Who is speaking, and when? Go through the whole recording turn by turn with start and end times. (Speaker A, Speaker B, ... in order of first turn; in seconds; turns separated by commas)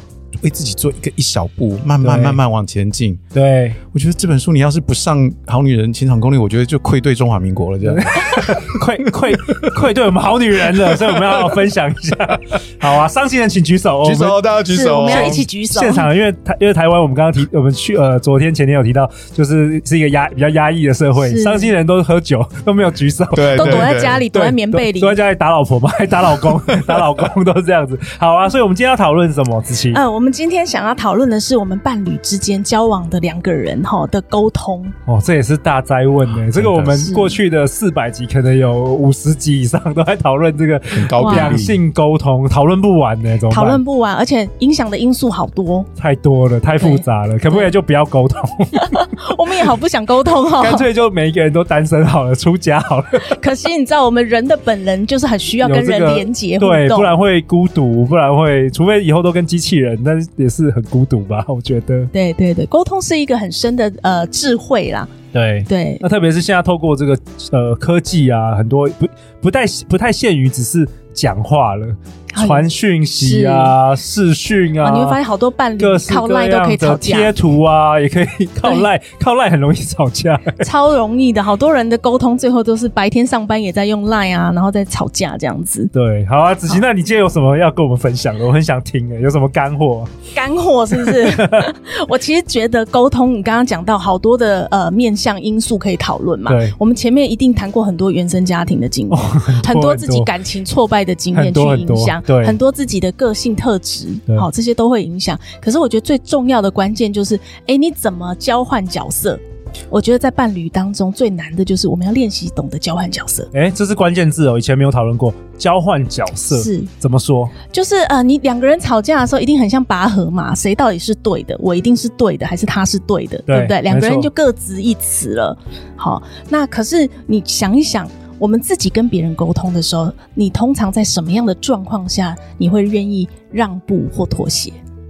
Speaker A: 0.4-3.2, Speaker B: 2.0-2.4, Speaker B: 3.3-3.8, Speaker A: 3.9-8.8, Speaker B: 7.8-14.4, Speaker A: 11.0-11.4, Speaker A: 14.0-15.4, Speaker C: 14.7-16.1, Speaker B: 15.0-30.0, Speaker C: 21.2-21.7, Speaker A: 23.3-24.2, Speaker C: 23.6-25.2, Speaker C: 29.9-34.9, Speaker B: 35.1-43.8, Speaker A: 36.5-37.0, Speaker C: 36.9-37.4, Speaker A: 40.9-41.8, Speaker C: 41.2-41.6, Speaker C: 43.5-45.9, Speaker B: 46.0-49.1, Speaker C: 46.8-47.7, Speaker C: 48.8-50.9, Speaker B: 50.6-53.4, Speaker C: 53.3-57.2, Speaker B: 55.6-62.1, Speaker C: 62.1-65.1, Speaker B: 65.3-75.2, Speaker C: 65.7-66.0, Speaker C: 72.3-73.8, Speaker C: 74.8-77.3, Speaker B: 75.8-80.6, Speaker C: 80.6-85.9, Speaker B: 85.9-90.1, Speaker C: 90.3-113.5, Speaker B: 91.0-91.7, Speaker B: 96.5-96.7, Speaker B: 99.1-100.3, Speaker B: 101.3-102.6, Speaker B: 113.5-117.5, Speaker C: 116.5-116.9, Speaker C: 117.7-134.8, Speaker B: 123.5-124.3